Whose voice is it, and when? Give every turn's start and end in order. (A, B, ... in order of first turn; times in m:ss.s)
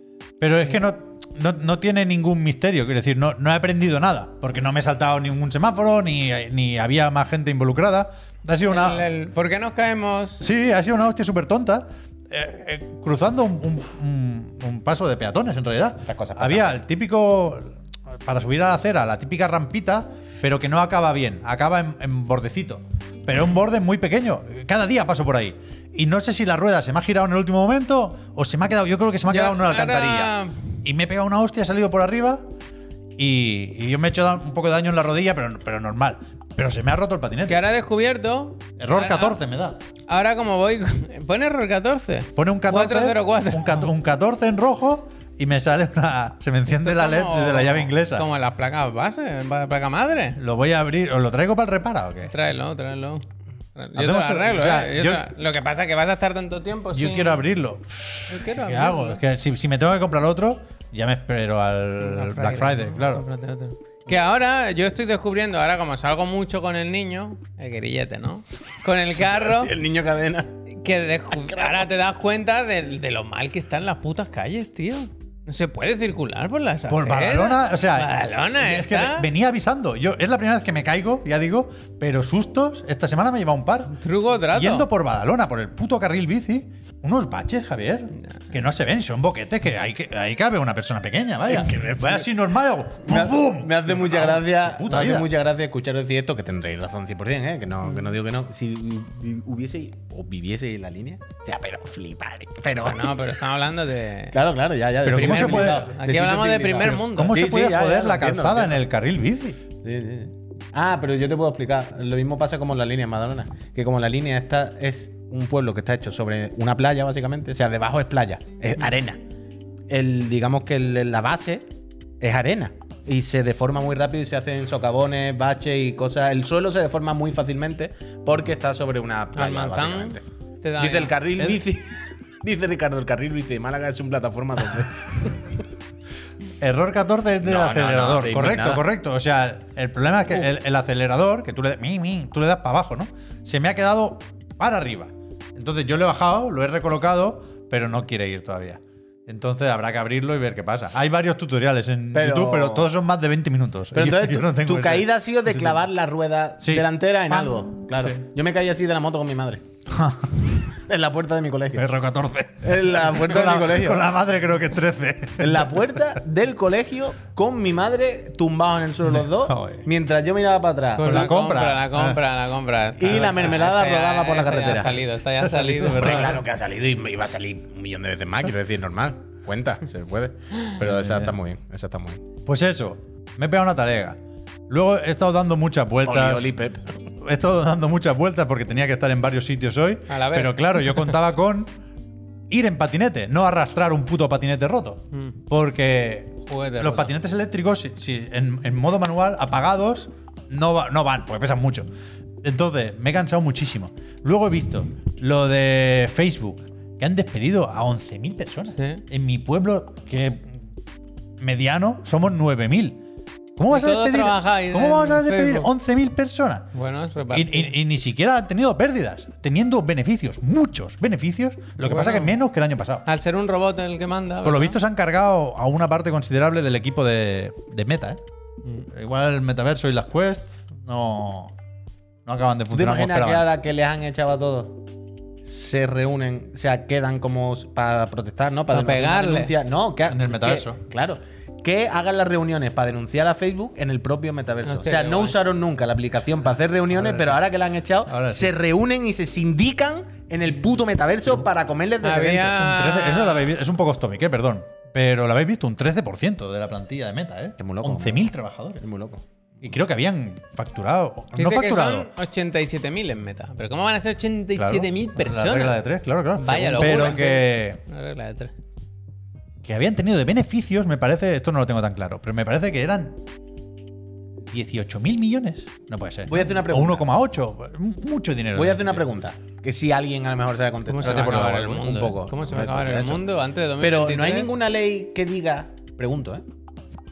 0:00.4-0:09.0 A
0:08.7-0:10.4 B
0:10.4-0:32.5 A
0:16.0-0:16.8 C
0:29.3-0:30.6 B
0:33.2-0:37.6 A
0:37.5-0:39.4 B
0:38.8-0:39.8 A
0:40.1-0:43.9 B
0:42.4-0:48.3 A
0:46.8-0:50.4 B
0:50.4-0:52.3 A
0:52.3-0:53.2 B
0:53.8-0:57.4 B
0:53.9-0:55.3 A
0:56.9-1:03.2 A
0:58.3-0:59.2 B
1:02.0-1:09.7 B
1:09.1-1:10.5 C
1:10.7-1:19.3 B
1:11.5-1:11.8 C
1:16.9-1:24.0 A
1:24.0-1:24.9 B
1:24.5-1:35.3 A
1:31.5-1:32.2 C
1:33.0-1:43.2 C
1:42.8-1:44.4 B
1:44.3-1:48.8 C
1:45.0-1:45.9 A
1:45.1-1:47.4 B
1:46.8-1:49.6 A
1:49.8-1:59.2 C
1:59.9-2:01.6 C
2:02.2-2:10.2 C
2:09.3-2:11.2 B
2:10.8-2:15.4 C
2:16.6-2:35.8 A
2:17.4-2:18.8 C
2:32.1-2:32.9 C
2:33.9-2:39.6 C
2:36.6-2:38.2 A
2:39.9-2:40.4 A
2:40.7-2:41.8 C
2:41.8-2:46.2 A
2:42.6-2:44.1 C
2:45.4-2:51.3 C
2:49.0-2:49.8 A
2:50.9-2:56.3 B
2:51.0-2:52.2 A
2:53.0-2:55.0 C
2:53.0-2:53.5 A
2:55.3-2:56.4 A
2:55.9-3:02.2 C
3:00.8-3:01.3 A
3:02.4-3:06.5 A
3:06.0-3:06.8 C
3:07.2-3:11.7 A
3:10.1-3:11.1 B
3:12.5-3:21.9 A
3:16.5-3:17.1 B
3:22.4-3:30.6 A
3:28.8-3:29.0 B
3:31.4-3:33.0 A
3:33.6-3:36.6 A
3:33.7-3:35.7 B
3:36.7-3:37.7 B
3:37.3-3:43.0 A
3:41.8-3:42.3 B
3:43.1-3:44.8 B
3:44.4-3:48.2 A
3:48.9-3:51.5 A
3:52.2-3:53.4 A
3:52.7-3:54.8 C
3:55.4-4:12.6 C
3:58.7-3:59.5 B
4:00.1-4:00.8 A
4:04.7-4:05.4 B
4:06.9-4:07.4 A
4:08.0-4:08.5 A
4:12.0-4:13.5 B
4:12.5-4:18.8 A
4:17.6-4:19.7 C
4:19.6-4:22.1 A
4:21.4-4:25.8 B
4:24.6-4:27.8 A
4:26.4-4:28.5 B
4:26.8-4:27.2 C
4:29.6-4:33.2 A
4:34.4-4:39.1 A
4:36.3-4:37.1 C
4:38.5-4:43.2 C
4:40.9-4:44.5 B
4:41.0-4:41.6 A
4:43.8-4:46.4 C